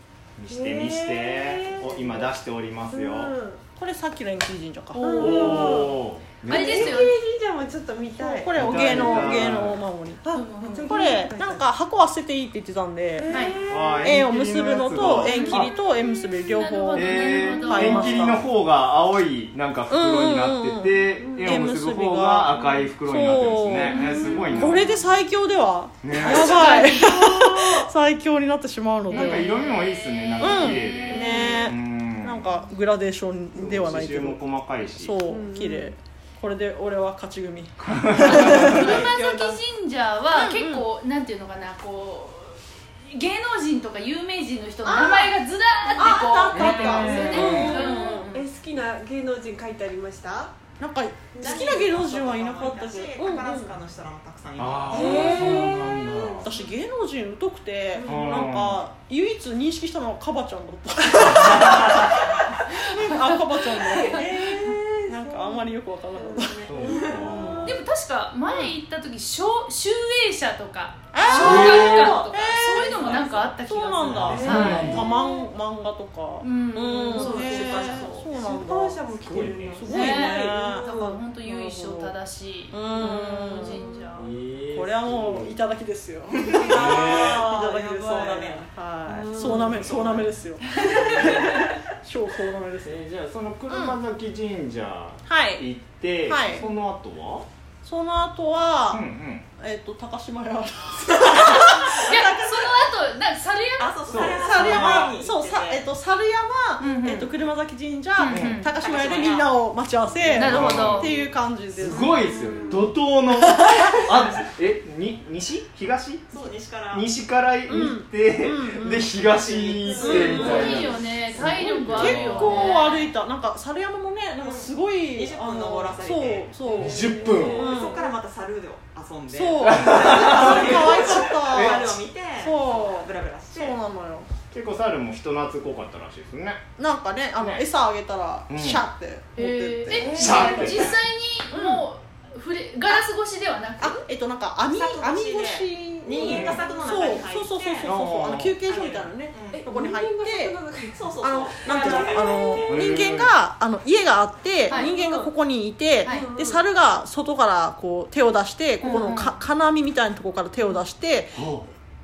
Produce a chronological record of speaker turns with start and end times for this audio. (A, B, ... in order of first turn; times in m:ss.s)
0:00.4-0:03.4 A
0:00.5-0:02.3 B
0:02.9-0:03.6 B
0:03.8-0:05.7 C
0:05.0-0:09.6 B
0:05.0-0:05.4 D
0:05.2-0:07.0 A
0:06.4-0:07.2 D
0:08.2-0:10.2 C
0:08.5-0:09.8 A
0:10.2-0:11.6 B
0:10.3-0:11.3 D
0:10.7-0:13.3 C
0:13.2-0:14.2 B
0:13.3-0:13.6 D
0:13.7-0:15.7 A
0:14.0-0:18.5 C
0:15.2-0:15.7 B
0:16.4-0:18.4 D
0:16.9-0:24.9 A
0:19.9-0:29.5 C
0:21.2-0:21.6 B
0:22.6-0:22.9 B
0:23.8-0:25.2 B
0:26.0-0:26.6 A
0:26.2-0:27.9 B
0:29.1-0:32.4 A
0:29.1-0:29.4 B
0:29.2-0:31.4 D
0:30.4-0:34.4 C
0:30.6-0:31.7 B
0:33.6-0:35.1 A
0:35.0-0:39.0 C
0:35.2-0:35.9 B
0:37.8-0:38.8 A
0:38.2-0:48.4 D
0:38.5-0:39.6 B
0:40.3-0:40.8 C
0:44.8-0:45.4 C
0:46.0-0:48.4 C
0:46.5-0:47.8 A
0:46.8-0:50.5 B
0:50.8-0:53.7 C
0:51.3-0:52.0 B
0:51.4-0:55.2 E
0:54.6-0:56.5 A
0:54.9-0:56.7 B
0:55.0-0:55.7 C
0:56.4-1:04.4 C
0:57.9-0:58.4 B
0:58.0-0:58.8 A
1:01.4-1:01.8 A
1:03.8-1:07.7 B
1:05.1-1:07.7 C
1:06.6-1:07.7 A
1:07.6-1:15.0 D
1:08.5-1:08.7 C
1:11.1-1:20.9 C
1:11.3-1:12.2 A
1:13.0-1:13.5 A
1:14.0-1:15.0 A
1:14.2-1:15.4 B
1:16.4-1:18.2 D
1:17.1-1:22.1 B
1:19.2-1:19.8 A
1:19.8-1:24.3 D
1:22.7-1:23.8 C
1:23.0-1:24.2 B
1:24.1-1:25.6 A
1:24.7-1:32.9 C
1:26.5-1:26.9 B
1:26.5-1:28.7 E
1:26.6-1:27.3 A
1:29.0-1:29.9 B
1:29.4-1:30.2 A
1:30.9-1:31.5 A
1:32.8-1:37.5 A
1:33.7-1:34.0 C
1:35.2-1:35.6 C
1:36.2-1:36.6 C
1:37.8-1:39.0 C
1:38.9-1:39.4 A
1:39.6-1:42.7 C
1:41.8-1:44.6 D
1:43.8-1:45.8 E
1:44.1-1:45.1 A
1:44.4-1:52.3 C
1:46.8-1:47.3 D
1:48.2-1:48.7 D
1:48.3-1:48.6 A
1:48.8-1:49.6 E
1:50.3-1:51.1 D
1:50.4-1:51.0 A
1:51.8-2:02.5 A
1:52.1-1:52.9 B
1:53.3-1:54.0 C
1:56.3-1:57.1 E
1:57.7-1:59.1 C
1:59.4-2:01.9 B
2:00.0-2:00.8 C
2:00.0-2:03.1 D
2:01.4-2:08.0 C
2:02.4-2:02.7 B
2:04.4-2:06.6 E
2:06.6-2:08.1 B
2:06.7-2:07.7 A
2:07.4-2:13.8 E
2:09.3-2:14.3 C
2:09.6-2:11.8 A
2:14.5-2:16.6 A
2:16.8-2:20.9 C
2:17.4-2:17.7 A
2:18.5-2:18.8 A
2:19.4-2:24.0 D
2:19.9-2:21.0 A
2:21.5-2:21.8 C
2:23.8-2:30.6 C
2:24.7-2:28.0 E
2:26.2-2:26.6 A
2:27.8-2:28.6 A
2:28.6-2:29.6 E
2:29.5-2:32.3 B
2:30.9-2:32.7 E
2:31.2-2:41.5 C
2:32.6-2:33.3 A
2:34.7-2:35.3 B
2:36.0-2:36.7 B
2:38.8-2:39.4 D
2:41.3-2:41.7 A